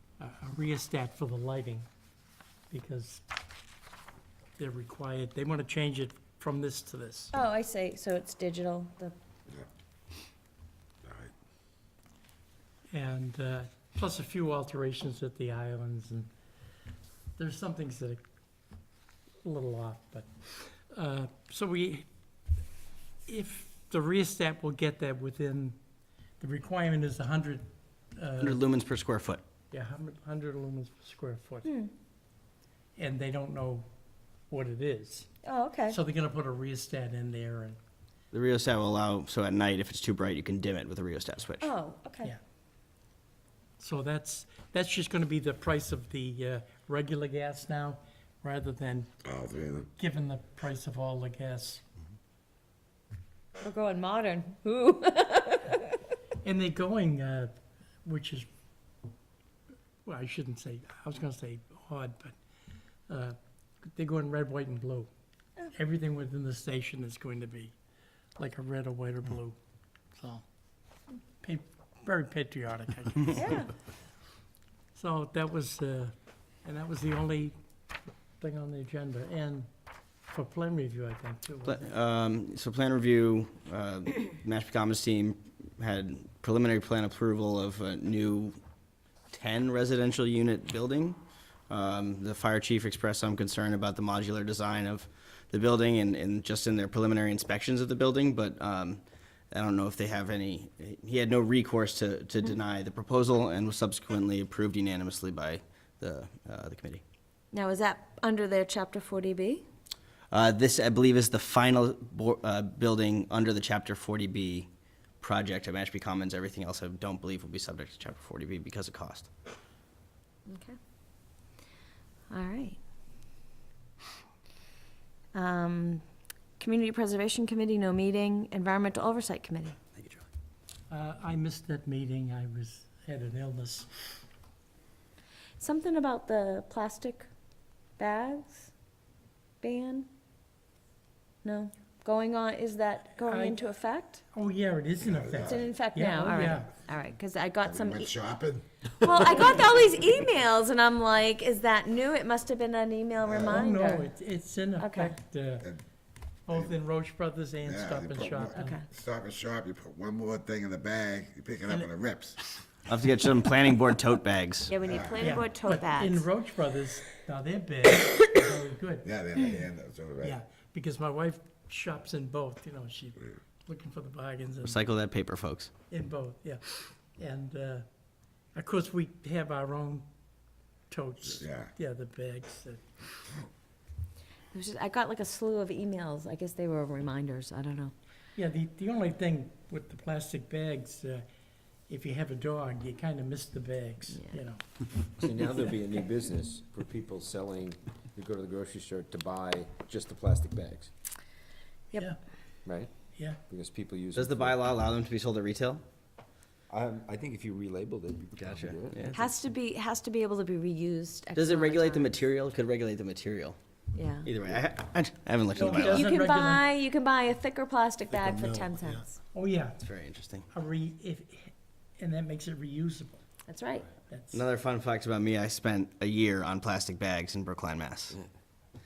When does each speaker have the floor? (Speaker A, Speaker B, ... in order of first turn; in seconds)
Speaker A: 0.2-1.9, 2.7-3.2, 4.6-7.3, 12.9-16.3, 17.4-18.2, 19.4-22.1, 23.3-25.8, 26.4-28.6, 29.7-31.7, 33.0-33.9, 34.5-35.3, 35.9-37.8, 43.8-49.1, 50.0-51.8, 56.4-57.5, 58.0-58.5, 60.0-62.4, 63.1-65.1, 65.7-67.8, 68.4-69.6, 70.2-70.5, 71.4-73.6, 75.0-77.5, 78.4-79.7, 80.3-81.9, 130.9-133.9, 143.2-143.6, 144.3-146.7, 153.4-155.7, 156.5-158.8, 165.2-169.1, 170.2-174.8, 175.9-177.9, 178.6-180.1, 180.9-183.0, 188.3-191.2, 191.9-194.7, 203.2-203.4, 215.5-216.7, 219.3-219.8, 220.5-223.2, 224.1-224.4
Speaker B: 7.3-9.2, 31.6-31.9, 35.4-36.0, 41.6-42.3, 53.6-56.0, 73.3-73.7, 107.5-109.7, 120.5-120.8, 122.3-122.8, 125.3-126.0, 126.6-129.8, 135.6-137.3, 138.0-138.7, 139.6-140.1, 141.4-144.2, 145.4-148.1, 149.0-154.1, 154.8-155.2, 158.5-158.8, 164.7-166.2, 184.5-187.9, 209.1-212.1, 213.9-214.3, 215.7-219.2, 223.5-223.9
Speaker C: 11.0-11.3, 49.2-49.9, 145.0-145.7, 147.6-148.7, 153.2-153.7, 157.6-162.4, 164.8-165.4, 169.0-170.4, 181.4-181.7
Speaker D: 28.4-29.4, 38.3-41.7, 81.7-88.6, 89.3-107.0, 110.3-114.7, 115.2-119.3, 130.0-130.2, 162.9-164.8, 174.6-175.7, 204.1-205.8, 208.4-209.2, 211.3-213.6, 214.2-216.1, 219.8-220.5, 224.3-228.2
Speaker E: 195.1-200.9, 202.7-202.9, 203.5-204.6, 206.7-209.2, 218.3-218.6